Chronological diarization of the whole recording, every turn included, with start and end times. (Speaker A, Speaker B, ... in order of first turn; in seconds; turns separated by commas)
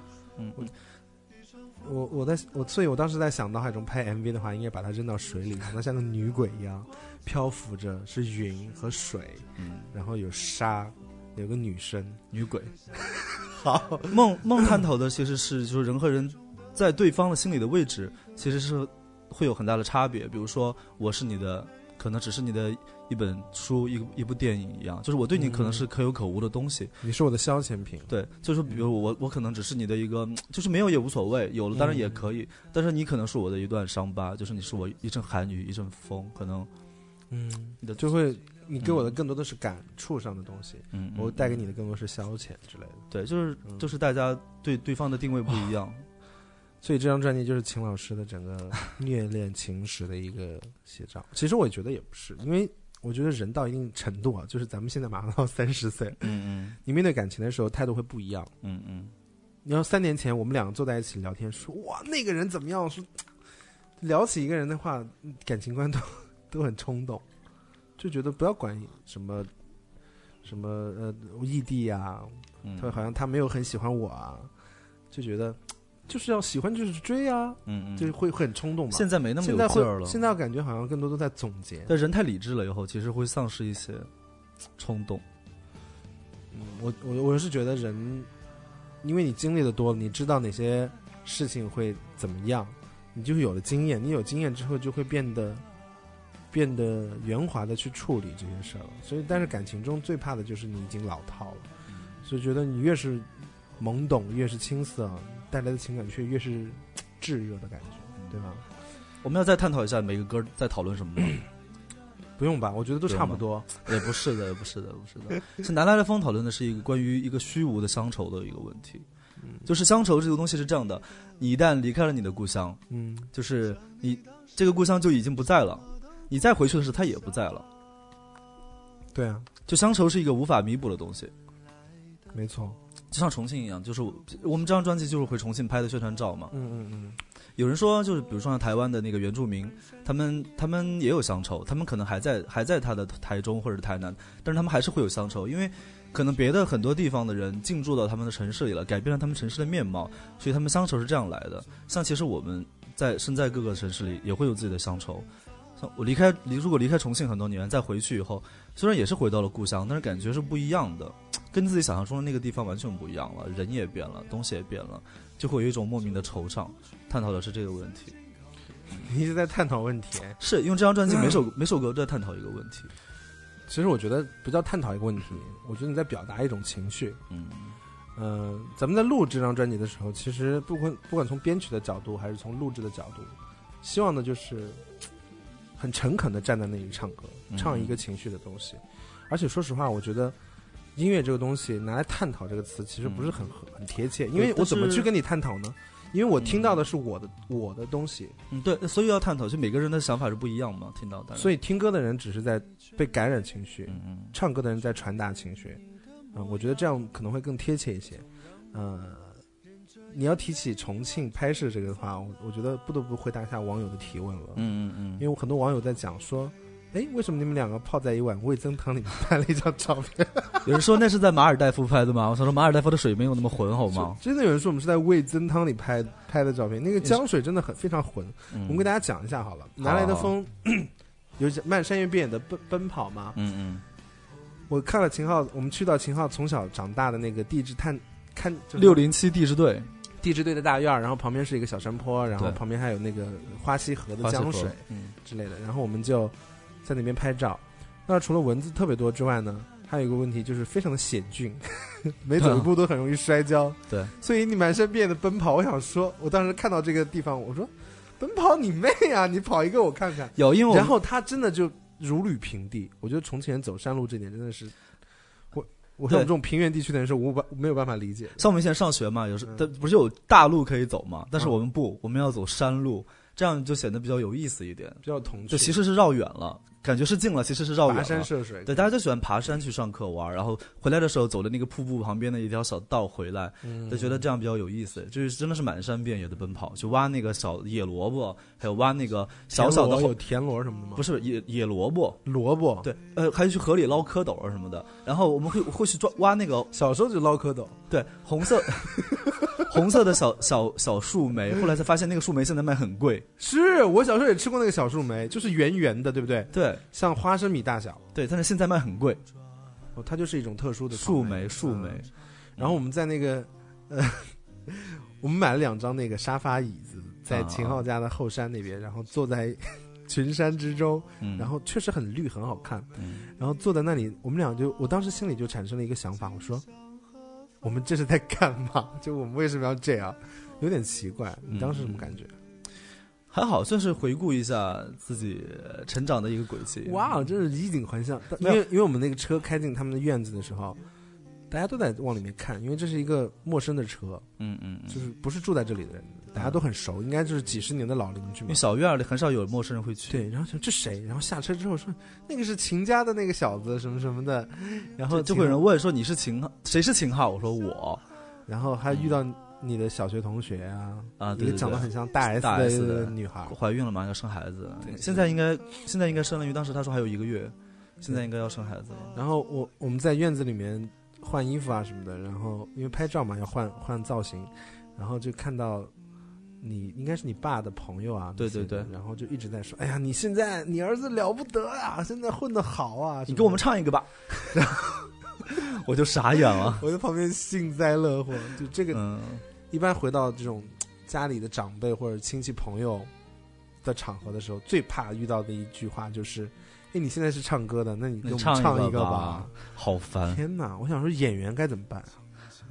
Speaker A: 0.4-0.7, Speaker B: 1.8-12.2, Speaker A: 9.6-9.9, Speaker A: 12.3-12.7, Speaker B: 13.1-14.7, Speaker A: 14.1-26.9, Speaker B: 25.3-25.9, Speaker B: 27.0-28.1, Speaker A: 28.1-36.7, Speaker B: 31.7-32.3, Speaker B: 37.3-43.0, Speaker A: 38.8-39.1, Speaker A: 40.9-41.6, Speaker A: 43.1-46.1, Speaker B: 46.8-58.5, Speaker A: 56.2-56.8, Speaker A: 58.6-59.1, Speaker B: 59.6-63.1, Speaker B: 64.0-67.2, Speaker B: 68.0-69.5, Speaker B: 70.4-74.5, Speaker A: 72.6-73.0, Speaker B: 75.1-81.9, Speaker A: 77.7-78.2, Speaker A: 78.9-80.2, Speaker A: 81.9-84.1, Speaker A: 84.8-85.2, Speaker B: 86.5-88.3, Speaker B: 89.0-95.7, Speaker B: 96.5-101.7, Speaker B: 102.2-108.7, Speaker A: 109.2-111.4, Speaker B: 112.4-114.1, Speaker A: 113.1-119.1, Speaker B: 119.4-119.7, Speaker A: 119.7-122.8, Speaker B: 122.9-123.3, Speaker A: 123.3-127.7, Speaker B: 129.1-129.5, Speaker A: 129.7-131.3, Speaker B: 132.3-132.8, Speaker A: 133.1-136.5, Speaker B: 136.5-137.2, Speaker A: 137.6-168.2, Speaker B: 168.9-170.4, Speaker A: 170.4-172.9, Speaker B: 173.7-177.2, Speaker A: 177.3-177.8, Speaker B: 178.2-184.8, Speaker B: 185.8-190.4, Speaker A: 187.5-188.0, Speaker B: 191.0-198.4, Speaker A: 193.1-193.4, Speaker A: 194.3-195.1, Speaker A: 196.4-196.8, Speaker A: 198.5-201.5, Speaker B: 201.3-205.8, Speaker A: 203.9-204.3, Speaker B: 206.3-209.4, Speaker B: 210.1-220.8, Speaker A: 214.6-215.2, Speaker A: 220.7-224.2, Speaker B: 223.9-233.4, Speaker A: 228.5-228.9, Speaker A: 229.8-230.3, Speaker A: 233.4-233.8, Speaker B: 234.7-239.0, Speaker A: 238.8-239.9, Speaker B: 240.2-264.8, Speaker A: 244.2-245.1, Speaker A: 252.4-252.7, Speaker A: 260.4-260.9, Speaker B: 265.5-268.4, Speaker A: 268.4-290.2, Speaker B: 275.0-275.8, Speaker B: 277.8-278.9, Speaker B: 283.6-284.2, Speaker B: 289.5-291.0, Speaker A: 291.0-292.2, Speaker B: 292.2-292.9, Speaker A: 292.8-296.7, Speaker B: 296.7-297.8, Speaker A: 297.9-303.3, Speaker B: 298.6-299.7, Speaker B: 303.4-308.0, Speaker A: 306.5-306.8, Speaker A: 308.1-309.2, Speaker B: 309.9-326.6, Speaker A: 310.9-312.7, Speaker A: 317.3-317.9, Speaker A: 321.2-321.5, Speaker A: 323.0-323.3, Speaker B: 327.6-332.4, Speaker A: 331.5-332.1, Speaker A: 333.3-337.2, Speaker B: 336.8-340.8, Speaker B: 341.5-344.3, Speaker A: 344.4-345.0, Speaker B: 344.9-348.6, Speaker A: 348.5-350.3, Speaker B: 350.1-355.6, Speaker A: 355.1-358.0, Speaker B: 358.5-363.6, Speaker A: 358.9-359.2, Speaker A: 361.2-369.2, Speaker B: 364.9-365.3, Speaker B: 369.1-375.9, Speaker B: 376.6-383.6, Speaker A: 378.4-378.9, Speaker A: 383.3-384.8, Speaker B: 384.5-385.1, Speaker A: 385.5-386.8, Speaker B: 386.4-389.0, Speaker A: 388.9-389.4, Speaker B: 389.7-393.1, Speaker B: 393.8-399.6, Speaker A: 398.2-400.4, Speaker B: 400.2-402.2